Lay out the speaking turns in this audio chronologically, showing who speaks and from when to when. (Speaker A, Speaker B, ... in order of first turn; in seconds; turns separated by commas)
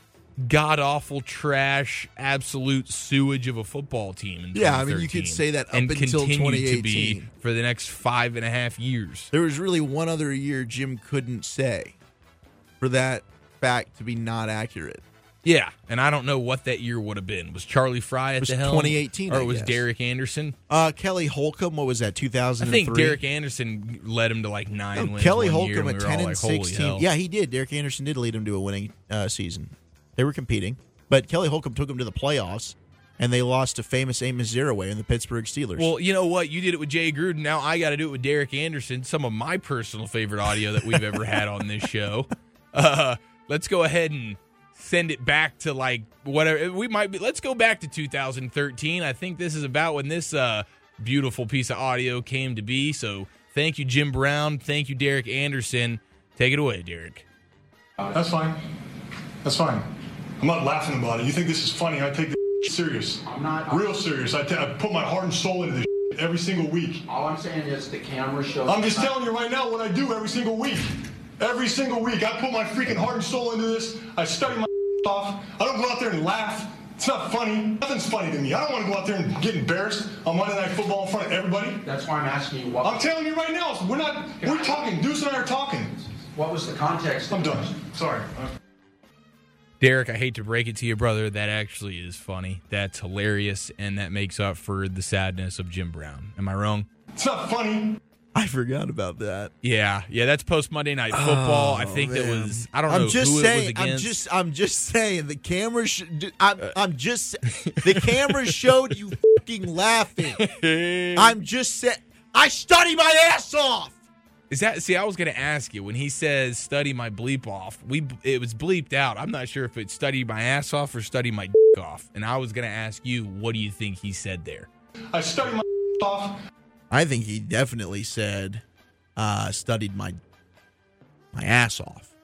Speaker A: 0.4-9.3, Speaker B: 4.5-7.3, Speaker B: 9.3-11.9, Speaker B: 12.8-15.0, Speaker A: 15.4-20.6, Speaker B: 18.4-19.8, Speaker B: 20.7-23.2, Speaker A: 22.6-27.1, Speaker B: 24.9-35.9, Speaker A: 35.8-57.2, Speaker C: 58.1-58.6, Speaker C: 59.4-59.9, Speaker C: 60.4-67.0, Speaker D: 63.2-64.0, Speaker D: 67.1-69.1, Speaker C: 68.7-81.8, Speaker D: 81.8-83.1, Speaker C: 82.8-85.9, Speaker D: 84.4-84.9, Speaker D: 86.3-87.7, Speaker C: 87.3-88.5, Speaker A: 89.8-96.9, Speaker C: 97.1-98.0, Speaker B: 98.3-99.5, Speaker A: 99.6-104.2, Speaker B: 101.1-110.4, Speaker A: 107.5-108.7, Speaker A: 110.3-111.4, Speaker B: 111.2-114.0, Speaker A: 114.5-124.7, Speaker C: 125.1-126.4, Speaker B: 126.9-128.6, Speaker B: 129.2-130.2, Speaker B: 131.3-132.1